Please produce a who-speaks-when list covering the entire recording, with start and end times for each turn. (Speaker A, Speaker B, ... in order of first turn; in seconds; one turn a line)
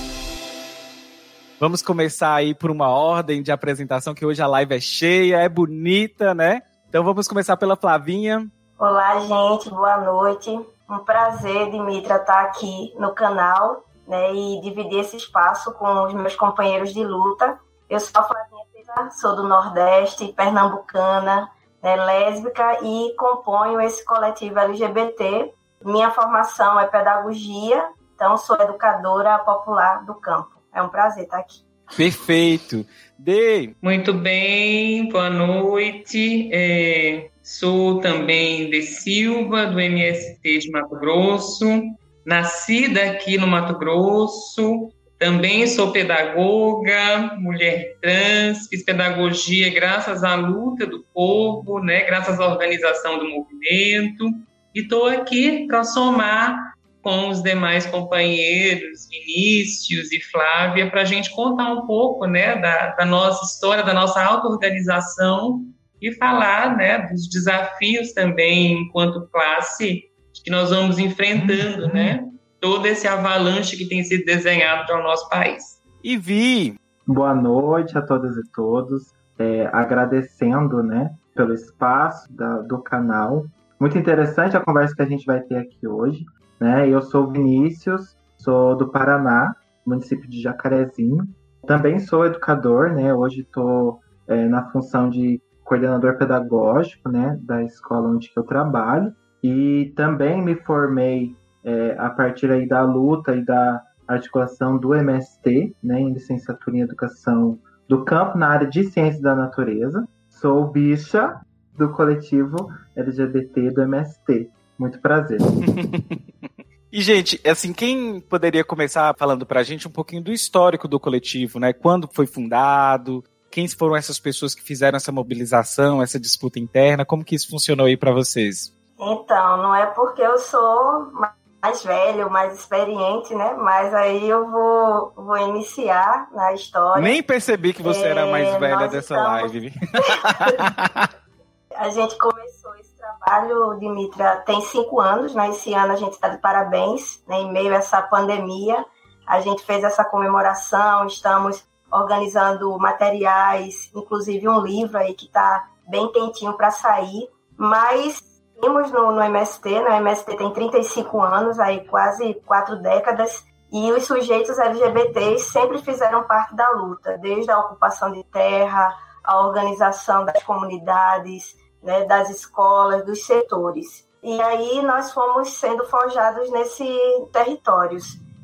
Speaker A: 1.6-8.5
Speaker B: 8.8-31.6
Speaker A: 31.9-33.7
Speaker C: 33.8-75.8
Speaker A: 76.0-76.8
Speaker D: 77.0-115.4
Speaker A: 115.5-128.7
Speaker B: 129.0-137.2
Speaker A: 136.9-141.1
Speaker B: 137.8-140.6
Speaker B: 141.8-178.2